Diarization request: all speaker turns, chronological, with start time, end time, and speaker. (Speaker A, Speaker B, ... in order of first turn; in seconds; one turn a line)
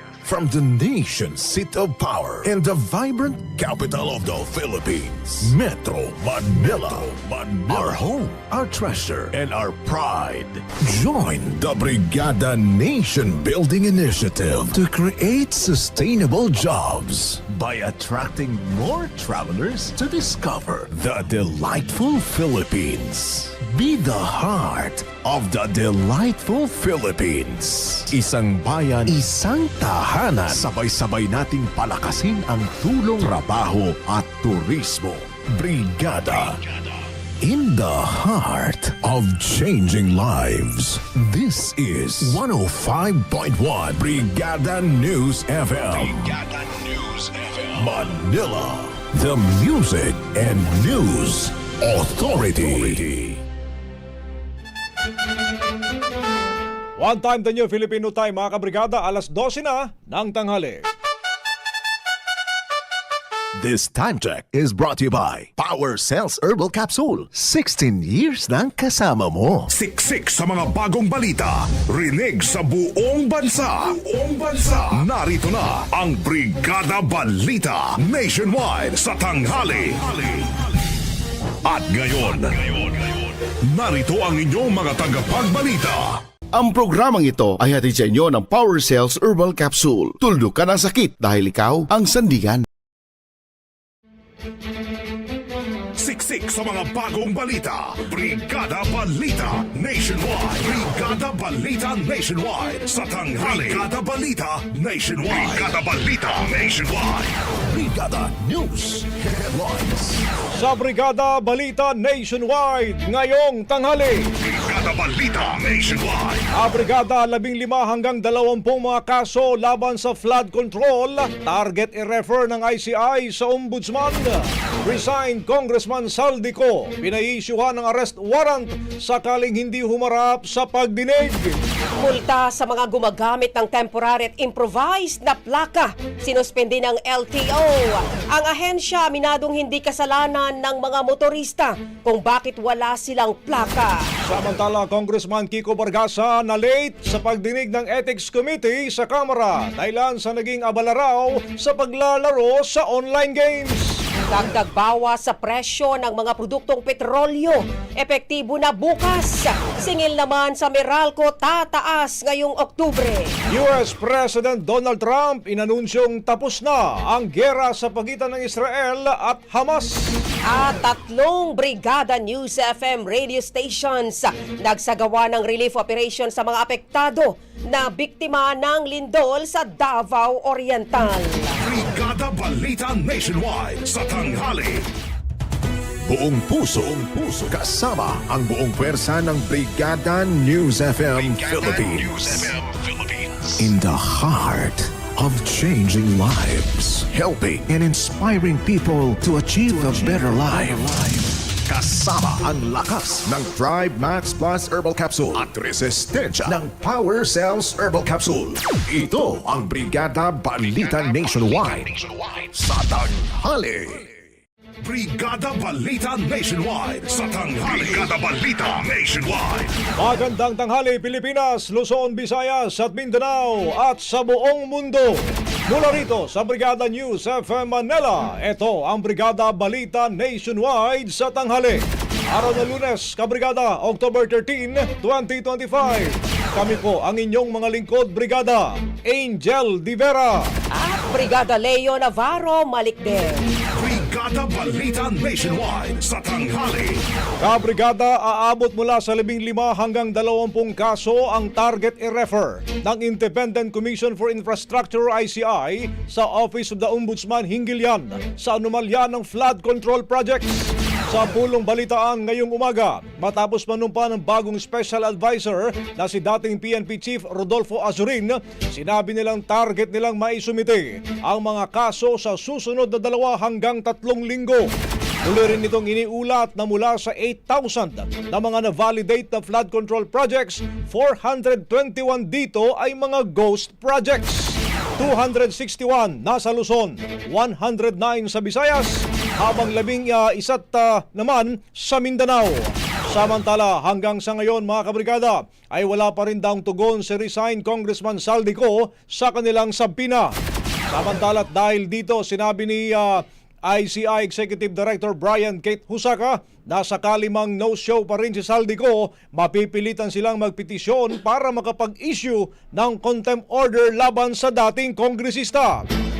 Speaker A: 0.2-36.6
Speaker A: 37.4-53.4
Speaker B: 57.0-60.8
Speaker A: 63.5-69.7
Speaker C: 69.7-80.5
Speaker C: 81.6-82.9
Speaker C: 83.7-86.2
Speaker D: 86.5-92.6
Speaker C: 96.0-107.5
Speaker A: 107.7-110.2
Speaker B: 110.5-114.3
Speaker C: 114.4-116.5
Speaker B: 116.5-131.6
Speaker E: 132.0-144.1
Speaker B: 144.2-154.0
Speaker E: 154.3-163.3
Speaker B: 163.5-170.0
Speaker E: 170.5-181.6
Speaker C: 181.6-184.8
Speaker A: 186.1-192.5
Speaker A: 193.3-214.1
Speaker C: 214.8-219.8
Speaker B: 220.0-240.4
Speaker E: 240.7-243.5
Speaker C: 243.7-247.0
Speaker B: 247.4-274.7
Speaker B: 275.2-300.3
Speaker B: 300.9-315.9